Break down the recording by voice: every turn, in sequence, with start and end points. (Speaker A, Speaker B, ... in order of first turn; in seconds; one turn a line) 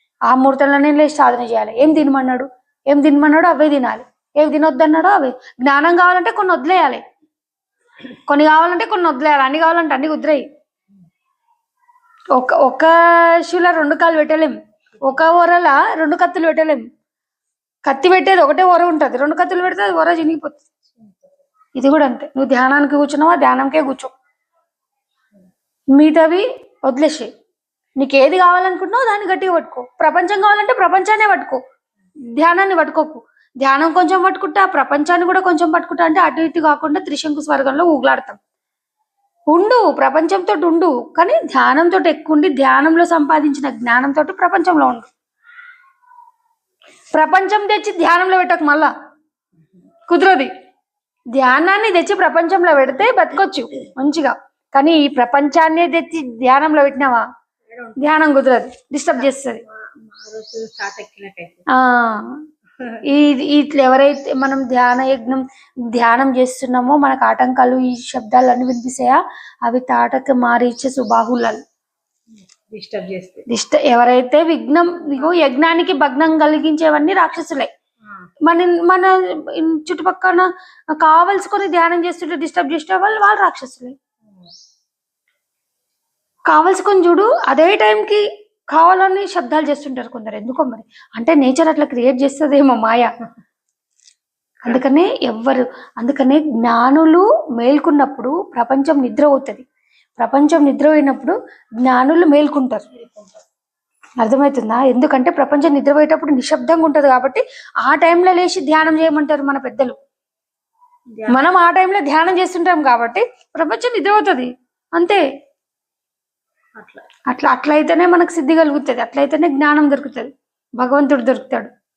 Speaker A: 0.3-7.0
Speaker A: 8.3-10.5
Speaker A: 12.3-16.8
Speaker A: 17.9-20.7
Speaker A: 21.8-24.1
Speaker A: 25.9-27.3
Speaker A: 28.0-31.6
Speaker A: 32.4-38.4
Speaker A: 39.5-45.1
Speaker A: 47.1-48.9
Speaker A: 50.1-50.5
Speaker A: 51.3-57.2
Speaker B: 57.7-58.2
Speaker A: 58.0-59.6
Speaker B: 59.5-61.7
Speaker A: 61.7-62.4
Speaker A: 63.0-71.6
Speaker B: 72.7-73.5
Speaker A: 73.5-77.7
Speaker A: 78.5-84.0
Speaker A: 86.5-93.1
Speaker A: 94.6-99.7
Speaker A: 100.2-102.8
Speaker A: 104.2-110.0
Speaker B: 111.2-111.4
Speaker A: 111.3-115.2
Speaker B: 116.8-117.0
Speaker A: 117.3-121.7